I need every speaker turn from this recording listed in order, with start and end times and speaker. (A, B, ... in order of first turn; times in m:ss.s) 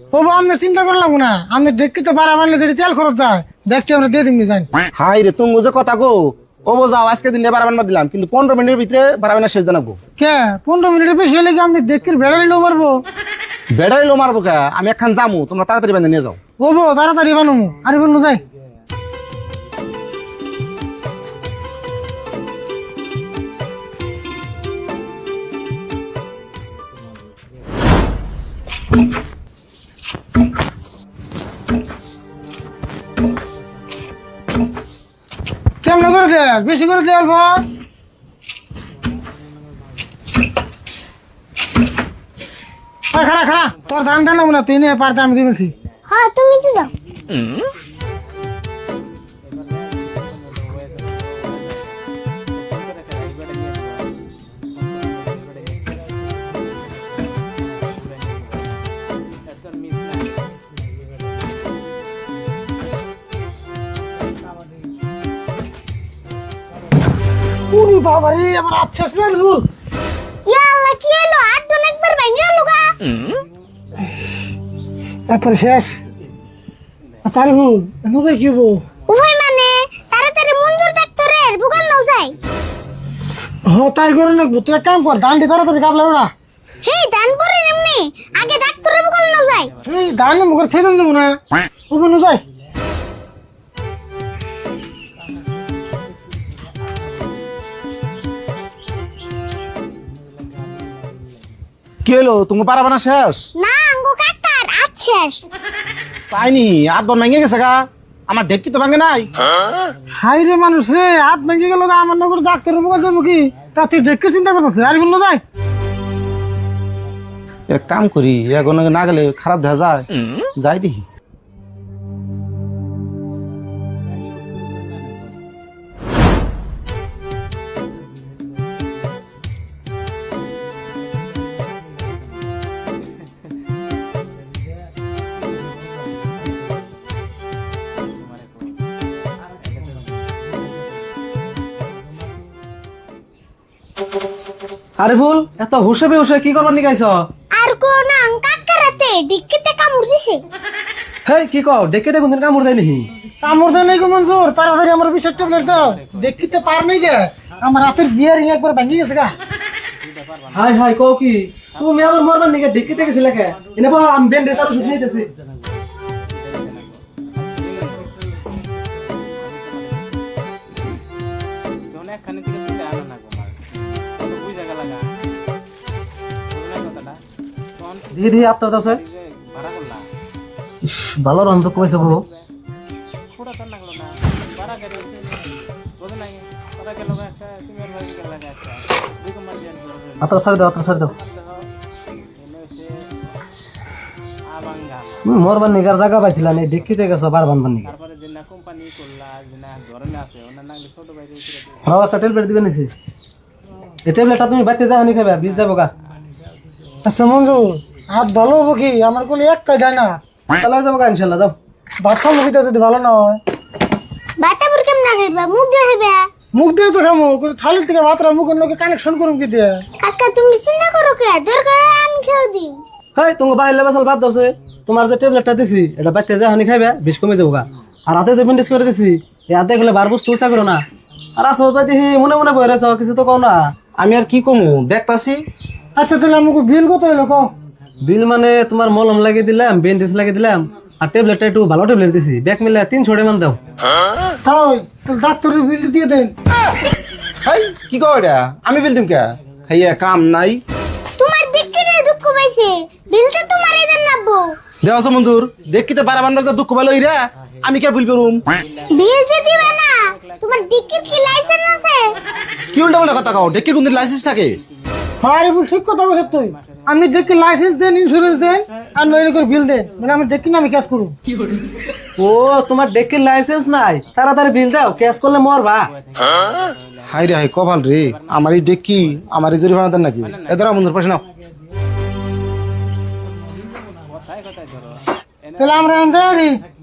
0:00.1-0:04.8 A
0:05.0-0:10.0 B
0:10.2-0:13.0 A
0:13.7-0:16.4 B
0:16.6-0:18.4 A
0:35.8-0:37.7 A
0:43.1-0:45.7 A
0:46.1-0:46.9 C
0:50.1-0:51.5 D
1:07.7-1:09.7 A
1:10.5-1:13.0 C
1:15.3-1:16.0 A
1:17.2-1:18.8 A
1:19.1-1:22.3 C
1:23.7-1:26.3 A
1:26.8-1:29.7 C
1:29.8-1:32.4 A
1:42.0-1:43.5 B
1:43.6-1:45.4 C
1:46.3-1:49.4 B
1:50.2-1:55.4 A
1:57.7-2:00.1 B
2:00.6-2:01.0 B
2:25.0-2:27.3 E
2:27.5-2:30.4 C
2:31.2-2:33.1 E
2:33.4-2:39.4 A
2:40.5-2:45.3 E
2:47.8-2:48.1 D
2:52.5-2:53.0 D
2:58.1-2:59.0 E
2:59.6-3:00.0 D
3:00.8-3:02.2 E
3:04.7-3:05.2 D
3:06.0-3:10.2 D
3:10.2-3:11.2 E
3:14.6-3:15.2 D
3:15.2-3:17.9 E
3:18.0-3:21.8 D
3:21.8-3:22.9 E
3:24.0-3:25.9 E
3:27.0-3:30.2 A
3:30.5-3:31.6 E
3:32.0-3:33.4 A
3:34.4-3:36.3 C
3:36.5-3:39.8 A
3:40.0-3:42.8 C
3:43.2-3:50.8 E
3:51.4-3:53.7 E
3:54.0-3:55.4 B
3:56.0-3:57.5 A
3:58.0-4:03.6 E
4:04.4-4:06.3 A
4:07.4-4:10.6 B
4:11.2-4:14.5 C
4:14.8-4:18.4 B
4:18.9-4:22.1 C
4:22.7-4:24.6 B
4:25.2-4:31.1 A
4:32.2-4:35.9 E
4:36.2-4:36.8 D
4:37.1-4:41.2 B
4:44.3-4:45.0 D
4:45.6-4:46.6 A